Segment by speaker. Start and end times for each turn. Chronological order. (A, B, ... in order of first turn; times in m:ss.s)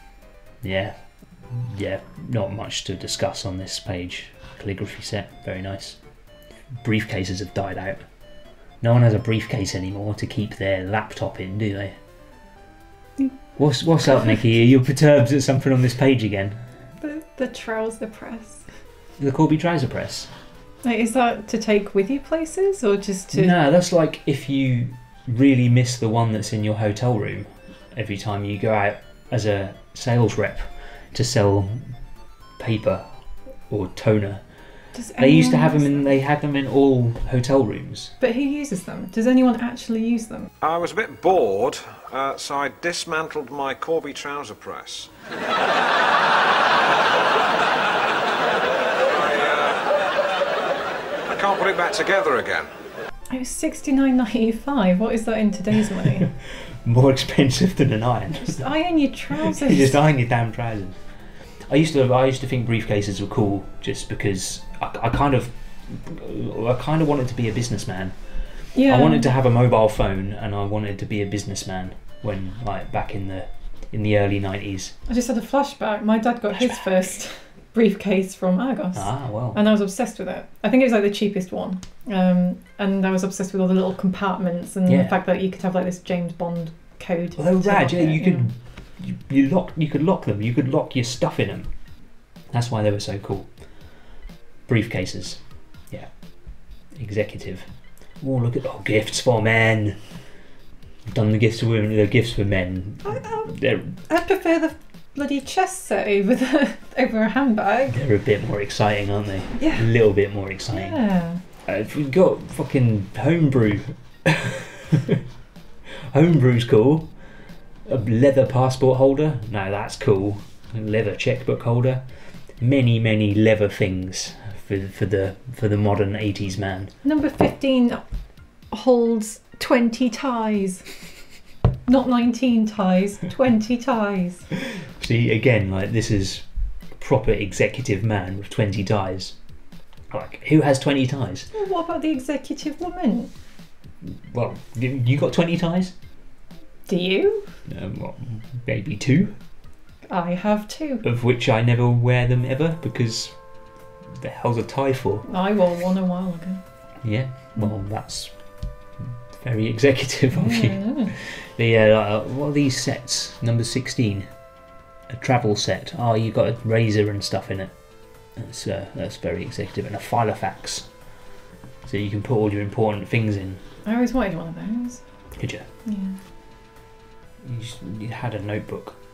0:00.6-0:06.0 A
0:06.8-0:08.1 A
0:08.8-0:12.0 A
0:13.6-0:16.7 A
0:17.0-0:18.7 B
0:19.2-0:20.3 A
0:20.8-0:23.5 B
0:23.3-0:31.9 A
0:32.6-0:33.1 A
0:33.7-0:34.4 A
0:34.9-0:36.0 B
0:35.2-0:38.1 A
0:38.2-0:40.5 B
0:40.6-0:45.1 C
0:49.0-0:50.0 C
0:51.3-0:52.7 C
0:53.3-0:56.3 B
0:56.3-0:58.6 A
0:58.4-1:00.0 B
0:59.4-1:01.0 A
1:01.7-1:15.0 A
1:08.7-1:09.3 B
1:15.1-1:28.5 B
1:16.5-1:16.9 A
1:19.0-1:19.6 A
1:24.9-1:25.2 A
1:27.4-1:31.7 A
1:32.5-1:33.5 A
1:34.7-1:40.2 A
1:41.1-1:44.0 A
1:43.0-1:48.0 B
1:47.9-1:51.0 A
1:49.6-1:49.8 B
1:50.7-1:51.4 B
1:51.6-1:55.2 A
1:56.1-1:57.1 A
1:57.8-2:06.9 A
2:07.0-2:08.0 B
2:08.7-2:10.9 B
2:11.9-2:14.5 B
2:14.8-2:19.4 A
2:20.1-2:21.5 A
2:21.5-2:23.3 B
2:24.0-2:26.0 A
2:26.9-2:27.5 B
2:27.7-2:29.4 A
2:30.1-2:31.0 B
2:31.0-2:33.5 A
2:34.1-2:35.3 A
2:35.3-2:36.6 B
2:37.0-2:38.4 A
2:39.0-2:44.3 A
2:40.3-2:41.2 B
2:45.1-2:50.9 A
2:51.8-2:53.6 A
2:53.8-2:55.1 B
2:55.3-2:55.7 A
2:55.8-2:56.2 B
2:57.4-2:59.0 A